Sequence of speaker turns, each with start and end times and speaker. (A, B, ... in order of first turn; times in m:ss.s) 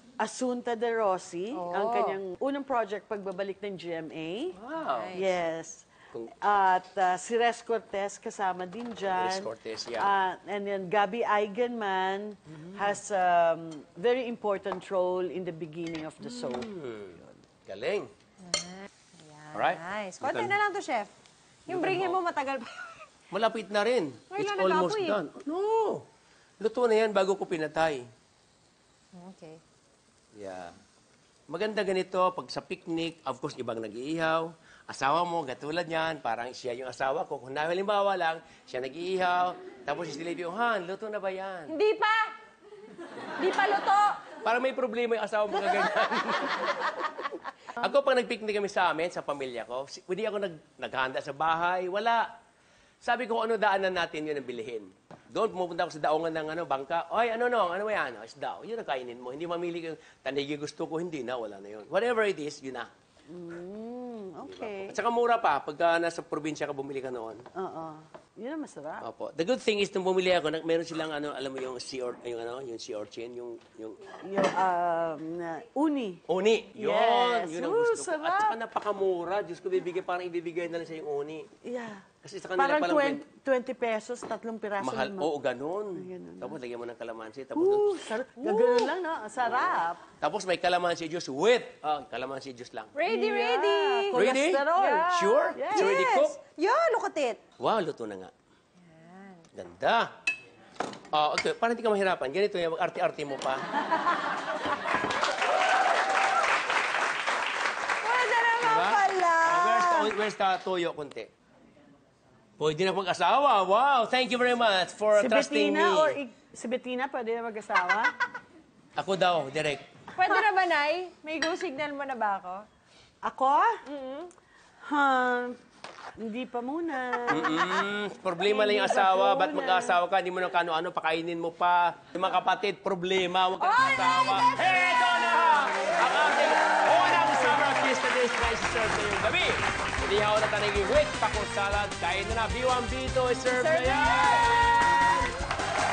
0:00.2-0:04.6 A
0:01.5-0:02.2 B
0:04.5-0:05.2 C
0:04.8-0:05.4 B
0:05.1-0:16.7 A
0:09.1-0:10.1 C
0:16.3-0:18.1 C
0:18.4-0:21.1 B
0:19.5-0:20.6 C
0:21.7-0:23.0 B
0:21.7-0:22.2 C
0:23.3-0:26.0 C
0:24.3-0:25.2 B
0:26.6-0:28.1 C
0:29.1-0:29.6 B
0:30.3-0:30.7 C
0:31.5-0:41.8 C
0:41.7-0:42.3 B
0:43.4-0:44.2 B
0:44.4-0:47.1 C
0:47.8-0:52.2 C
0:53.0-1:02.9 C
1:03.3-1:05.0 A
1:04.4-1:07.4 C
1:07.5-1:09.0 A
1:09.0-1:14.0 C
1:14.2-1:16.2 A
1:16.3-1:21.5 C
1:16.7-1:18.6 A
1:21.6-1:25.3 A
1:22.2-1:23.2 C
1:24.8-1:27.9 C
1:25.9-1:26.6 A
1:27.5-1:30.0 A
1:28.4-1:28.9 C
1:30.2-1:32.9 C
1:32.9-1:37.4 B
1:33.0-1:36.0 A
1:34.1-1:36.4 C
1:37.6-1:38.3 C
1:38.9-1:39.4 B
1:39.5-1:40.1 C
1:41.1-1:43.6 C
1:48.0-1:50.1 B
1:48.6-1:51.3 C
1:52.6-1:56.2 C
1:55.1-1:58.1 A
1:59.0-1:59.8 C
2:00.1-2:02.6 B
2:03.2-2:03.8 A
2:03.8-2:04.3 B
2:04.8-2:05.6 A
2:06.2-2:07.8 A
2:07.3-2:25.2 C
2:08.4-2:10.0 A
2:13.6-2:15.2 B
2:23.5-2:25.2 B